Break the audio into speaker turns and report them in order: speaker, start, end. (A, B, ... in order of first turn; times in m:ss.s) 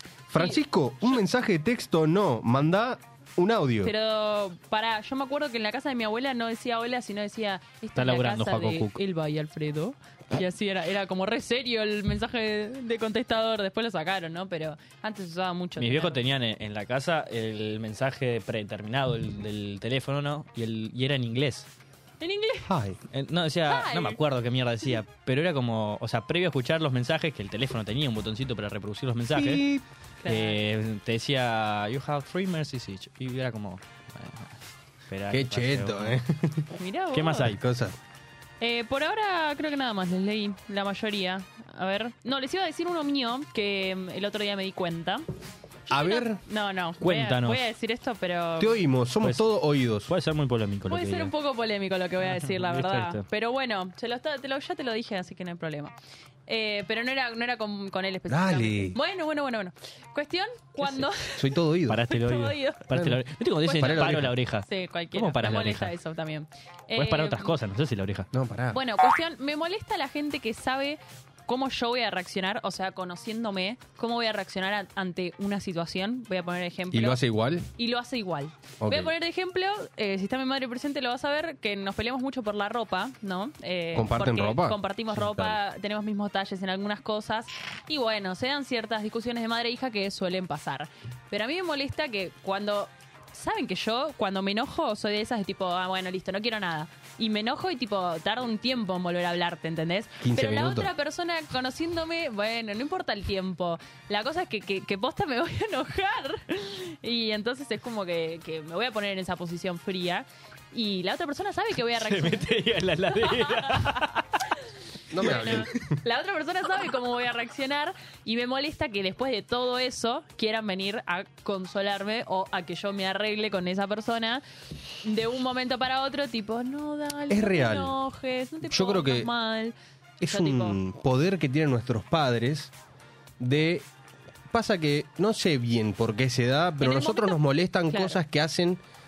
0:00.3-0:03.9 A
0:03.8-0:16.2 B
0:08.0-0:09.0 C
0:15.8-0:21.7 C
0:22.2-0:22.7 B
0:22.7-0:23.0 A
0:23.1-0:29.6 C
0:23.7-0:24.2 B
0:29.3-0:29.8 A
0:30.2-0:30.6 B
0:30.2-0:36.2 C
0:35.3-0:36.7 A
0:36.8-0:37.5 B
0:37.1-0:37.6 C
0:37.4-0:38.0 A
0:38.6-0:45.2 B
0:45.9-0:48.8 B
0:45.9-0:46.4 A
0:47.0-0:47.6 C
0:48.6-0:50.1 A
0:50.0-0:51.3 C
0:50.9-0:55.9 B
0:52.2-0:53.2 C
0:56.5-1:01.4 B
0:58.3-0:59.0 A
1:01.4-1:02.0 A
1:01.9-1:05.9 C
1:02.1-1:02.9 B
1:02.9-1:04.4 A
1:03.6-1:07.5 B
1:06.9-1:08.3 C
1:08.3-1:08.8 A
1:08.7-1:17.2 B
1:16.9-1:17.7 A
1:17.8-1:52.5 B
1:18.8-1:19.1 A
1:23.9-1:25.6 A
1:40.2-1:40.9 A
1:51.9-1:54.3 C
1:53.1-1:54.2 B
1:55.1-1:55.7 A
1:55.2-2:04.4 B
2:05.0-2:10.8 B
2:07.3-2:07.9 A
2:08.6-2:09.3 A
2:10.2-2:12.7 A
2:13.4-2:13.9 A
2:14.5-2:18.8 A
2:16.8-2:18.2 B